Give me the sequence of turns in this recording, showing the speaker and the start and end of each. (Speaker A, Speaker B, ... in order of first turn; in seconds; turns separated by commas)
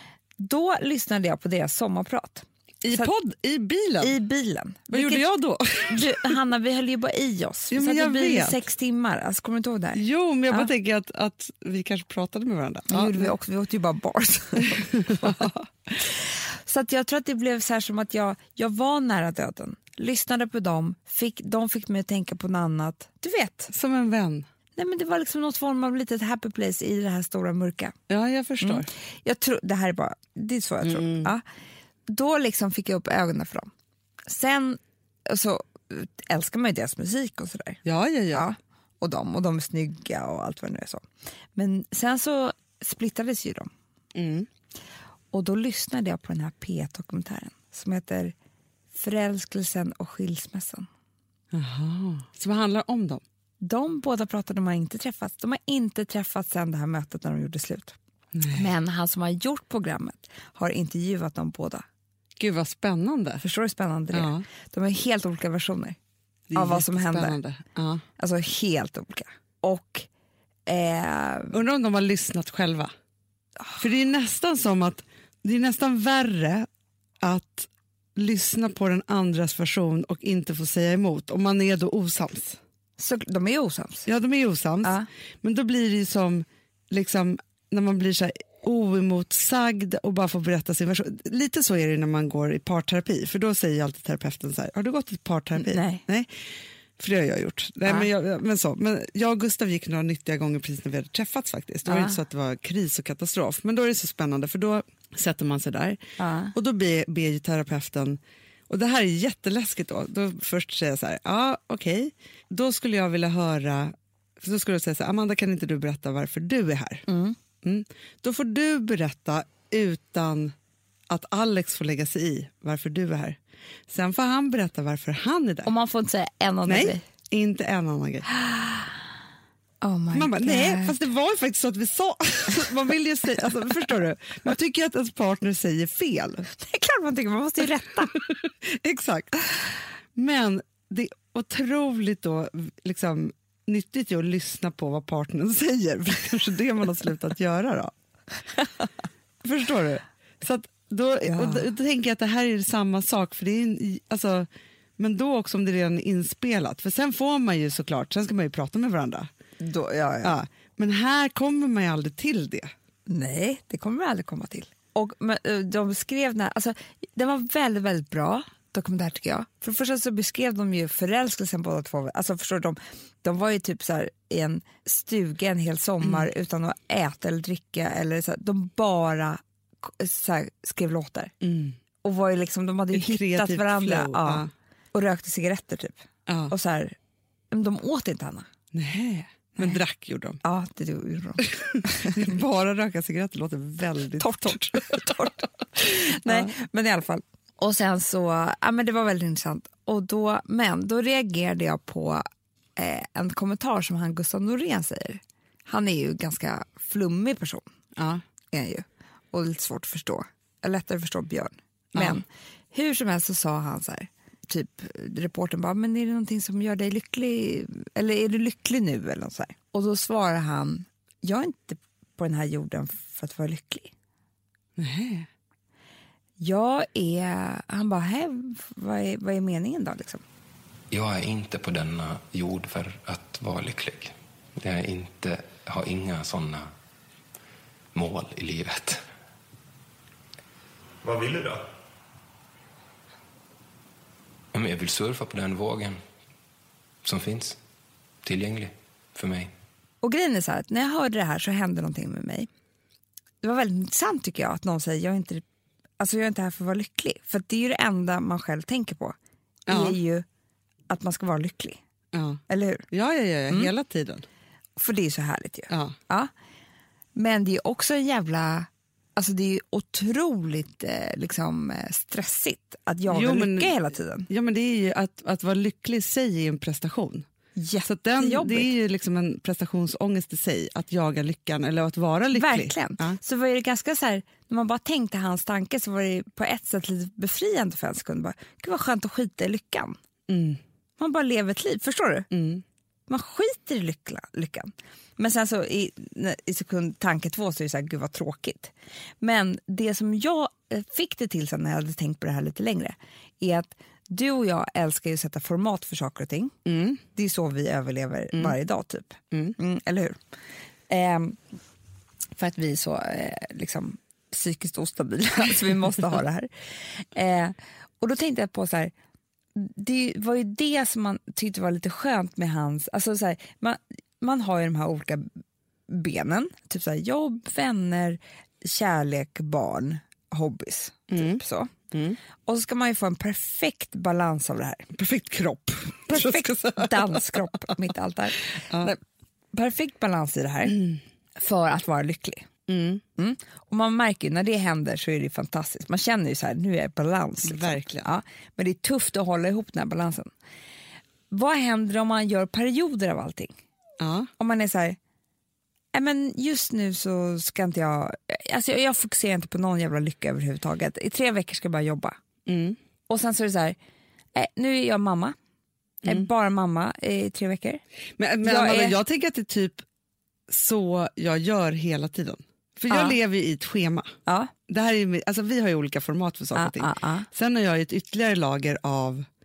Speaker A: 0.4-3.1, Speaker B: 2.8-4.2, Speaker A: 4.0-5.3, Speaker B: 4.9-6.3, Speaker A: 5.8-10.7, Speaker B: 7.7-8.6, Speaker B: 9.9-13.3, Speaker A: 12.9-15.5, Speaker B: 14.9-15.7, Speaker A: 16.0-23.7, Speaker B: 23.7-24.5, Speaker A: 24.8-27.9, Speaker B: 28.1-28.9, Speaker A: 28.6-31.4, Speaker B: 30.8-31.3, Speaker A: 32.1-33.7, Speaker A: 34.3-43.7, Speaker B: 37.9-38.5, Speaker B: 44.1-44.5, Speaker A: 45.3-48.3, Speaker A: 48.9-50.9, Speaker B: 51.5-53.2, Speaker A: 53.6-58.0, Speaker B: 58.4-58.7, Speaker A: 58.5-61.9, Speaker B: 62.4-63.5, Speaker A: 63.4-66.0, Speaker B: 64.1-64.5, Speaker B: 66.5-68.0, Speaker A: 66.5-67.4, Speaker A: 68.2-70.1, Speaker A: 70.7-71.6, Speaker B: 71.5-72.9, Speaker B: 73.8-76.7, Speaker B: 77.2-82.6, Speaker A: 83.0-84.1, Speaker B: 84.1-96.3, Speaker A: 95.6-96.0, Speaker B: 97.0-117.1, Speaker A: 101.9-102.2, Speaker A: 106.2-106.5, Speaker A: 117.1-117.4, Speaker B: 117.6-120.5, Speaker B: 121.1-123.4, Speaker B: 123.9-125.7, Speaker A: 125.7-127.0, Speaker B: 126.7-128.3, Speaker A: 128.4-128.9, Speaker A: 129.8-131.0, Speaker B: 130.1-136.5, Speaker A: 136.6-138.1, Speaker B: 138.7-139.4, Speaker B: 140.2-147.9, Speaker B: 149.4-154.5, Speaker A: 151.3-151.6, Speaker B: 155.0-159.3, Speaker A: 159.6-160.3, Speaker B: 160.2-162.7, Speaker A: 163.1-181.3, Speaker B: 176.0-176.3, Speaker B: 181.4-181.8, Speaker A: 182.0-187.0, Speaker B: 182.9-184.5, Speaker B: 186.3-186.5, Speaker A: 187.5-188.5, Speaker B: 188.7-190.4, Speaker A: 190.4-192.3, Speaker B: 191.4-195.0, Speaker A: 194.2-202.2, Speaker B: 196.0-196.5, Speaker A: 202.8-207.7, Speaker B: 208.0-208.2, Speaker A: 208.5-223.9, Speaker B: 211.9-212.2, Speaker B: 224.8-225.3, Speaker A: 226.4-230.2, Speaker C: 230.9-236.7, Speaker C: 237.9-239.0, Speaker C: 241.1-241.6, Speaker C: 244.5-246.0, Speaker C: 247.0-247.6, Speaker C: 248.2-249.5, Speaker A: 250.0-252.5, Speaker A: 253.4-255.4, Speaker A: 256.0-259.1, Speaker B: 259.7-260.0, Speaker A: 259.7-260.2, Speaker A: 260.9-261.8, Speaker B: 262.1-264.2, Speaker A: 262.5-262.9, Speaker A: 264.8-266.3, Speaker B: 265.7-265.9, Speaker A: 267.1-274.3, Speaker B: 273.1-273.8, Speaker B: 274.3-277.3, Speaker A: 277.6-278.8, Speaker B: 277.8-283.2, Speaker A: 282.3-290.0, Speaker B: 290.3-290.6, Speaker A: 291.0-292.3, Speaker B: 292.3-292.6, Speaker A: 293.1-310.2, Speaker B: 306.7-307.0, Speaker A: 310.9-311.4, Speaker A: 312.4-318.9, Speaker A: 319.6-325.3, Speaker A: 325.9-331.7, Speaker B: 331.1-332.2, Speaker A: 332.5-334.9, Speaker B: 334.9-337.7, Speaker A: 336.1-339.0, Speaker B: 338.6-338.9, Speaker A: 339.5-340.8, Speaker B: 340.7-341.0, Speaker A: 341.4-342.5, Speaker B: 342.7-343.0, Speaker A: 343.2-350.3, Speaker B: 347.4-348.1, Speaker A: 351.3-353.6, Speaker B: 354.0-354.3, Speaker A: 354.4-355.0, Speaker A: 355.9-362.2, Speaker B: 362.5-362.8, Speaker A: 363.1-363.8, Speaker A: 364.4-365.4, Speaker A: 366.0-367.8, Speaker B: 368.2-369.8, Speaker A: 368.4-369.0, Speaker B: 370.5-374.1, Speaker A: 372.9-373.1, Speaker A: 374.3-374.5, Speaker B: 374.7-379.3, Speaker A: 376.6-377.3